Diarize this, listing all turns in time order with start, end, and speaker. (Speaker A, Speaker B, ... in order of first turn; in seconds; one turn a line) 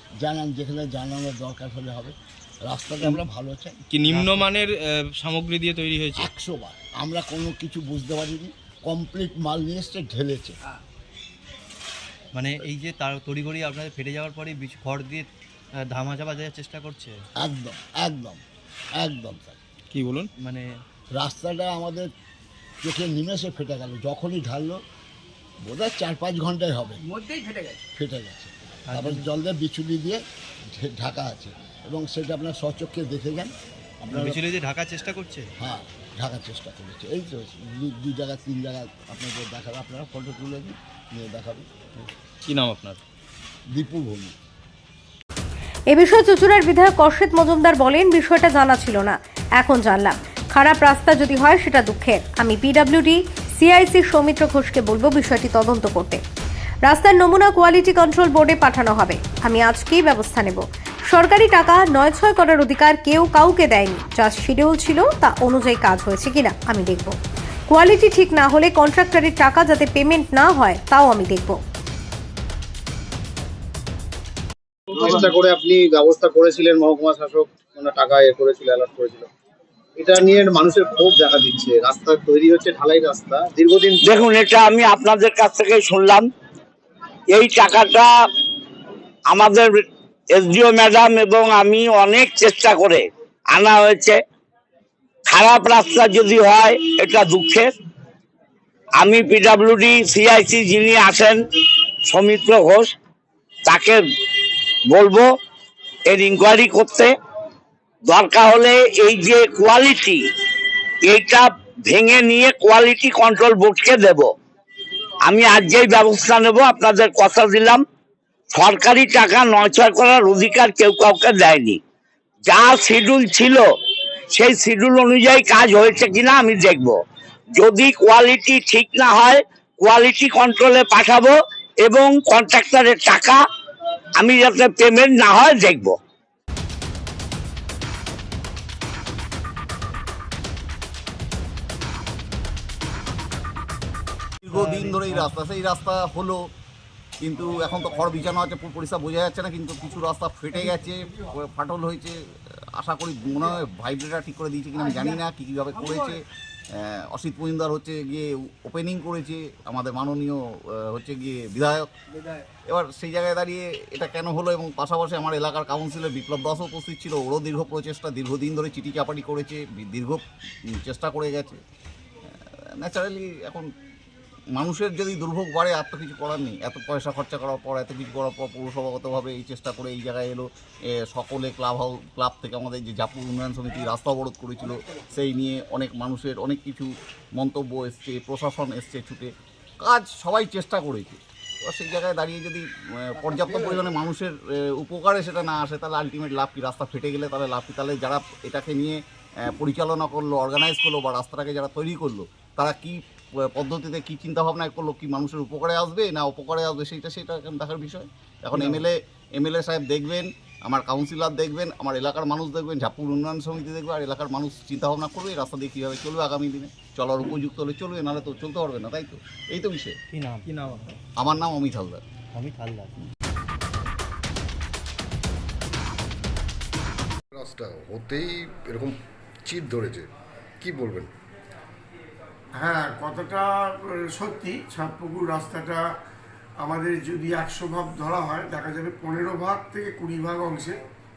Speaker A: 0.2-4.4
Speaker B: 3.9-6.3
Speaker A: 6.2-10.5
Speaker C: 12.3-15.3
Speaker C: 15.8-17.2
Speaker A: 17.4-18.4
Speaker A: 19.0-19.6
Speaker B: 19.9-20.3
Speaker C: 20.4-20.7
Speaker A: 21.1-22.1
Speaker A: 22.8-24.8
Speaker A: 25.6-27.0
Speaker A: 27.9-30.2
Speaker C: 28.9-29.3
Speaker A: 30.7-34.4
Speaker C: 34.1-35.5
Speaker A: 35.6-41.6
Speaker B: 42.5-43.0
Speaker A: 43.7-44.3
Speaker D: 45.9-56.2
Speaker D: 56.9-67.2
Speaker D: 67.7-71.6
Speaker E: 74.9-79.3
Speaker E: 80.0-84.0
Speaker F: 84.0-86.3
Speaker F: 87.3-88.1
Speaker F: 89.3-94.2
Speaker F: 95.3-97.7
Speaker F: 99.0-101.4
Speaker F: 102.1-102.9
Speaker F: 103.7-104.0
Speaker F: 104.9-105.3
Speaker F: 106.1-107.1
Speaker F: 108.1-110.2
Speaker F: 111.0-114.3
Speaker F: 115.2-117.8
Speaker F: 118.5-121.8
Speaker F: 122.5-123.7
Speaker F: 124.3-127.0
Speaker F: 127.5-133.4
Speaker F: 134.2-136.0
Speaker G: 144.5-146.4
Speaker C: 144.6-145.2
Speaker G: 147.2-152.2
Speaker G: 152.8-156.2
Speaker G: 157.1-160.4
Speaker G: 160.9-161.9
Speaker G: 162.7-170.2
Speaker G: 170.8-171.6
Speaker G: 172.8-173.7
Speaker G: 174.6-180.5
Speaker G: 181.1-189.3
Speaker G: 189.8-203.0
Speaker G: 203.5-219.9
Speaker C: 220.1-220.9
Speaker G: 221.2-222.0
Speaker C: 222.3-223.0
Speaker H: 227.3-230.1
Speaker H: 230.6-231.1
Speaker I: 232.5-235.8
Speaker I: 236.6-240.8